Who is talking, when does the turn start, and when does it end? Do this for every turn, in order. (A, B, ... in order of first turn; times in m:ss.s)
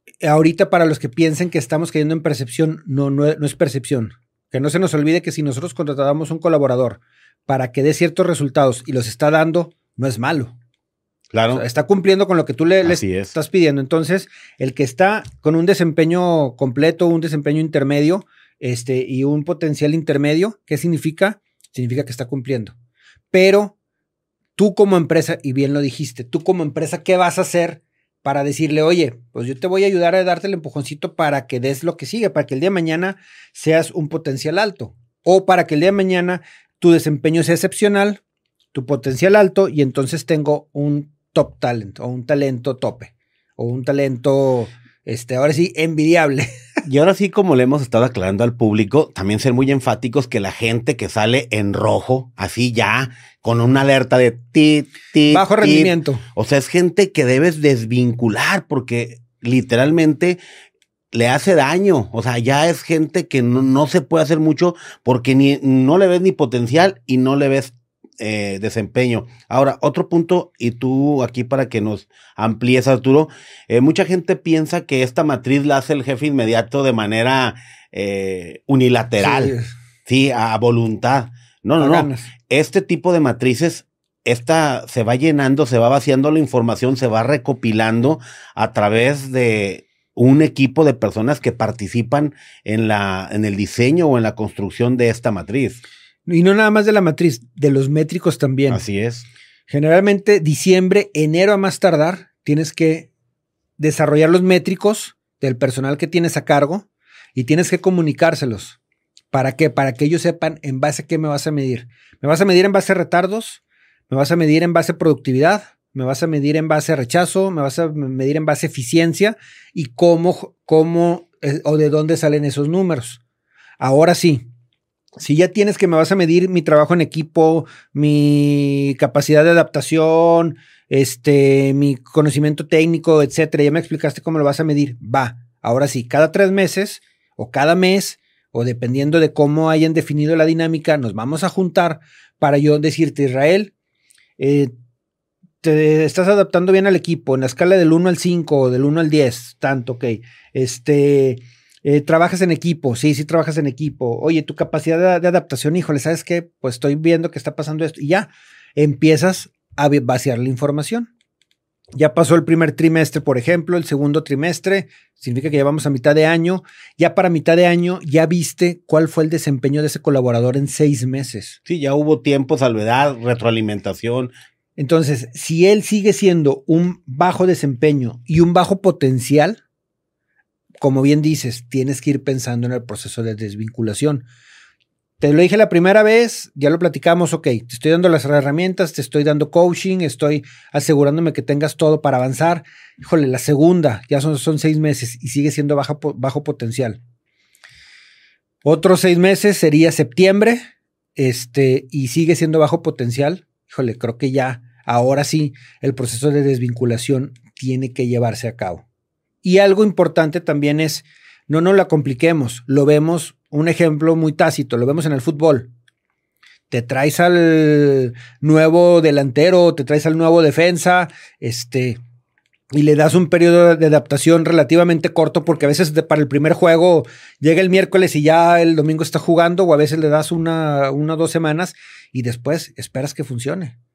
0:00.2-0:10.6 A
0:11.3-0:11.6 B
0:11.5-0:22.7 A
0:12.8-0:13.4 B
0:23.3-0:23.8 A
0:24.6-0:38.2 A
0:38.7-0:46.5 A
0:46.8-1:00.4 B
0:55.3-0:56.2 A
1:01.1-1:19.5 B
1:19.2-1:19.7 A
1:20.1-1:35.8 B
1:21.8-1:22.3 A
1:36.3-1:38.8 A
1:38.7-1:39.2 B
1:39.7-1:43.1 A
1:43.8-1:48.8 A
1:49.3-2:03.2 A
2:03.8-2:04.4 A
2:05.2-2:23.7 A
2:24.4-2:24.7 A
2:25.6-2:41.1 A
2:42.0-2:51.6 A
2:51.6-2:54.3 B
2:54.8-2:59.6 A
3:00.8-3:04.2 A
3:05.2-3:17.0 A
3:18.6-3:20.6 A
3:21.2-3:28.8 A
3:29.4-3:35.7 A
3:36.7-3:42.0 A
3:42.7-3:53.8 A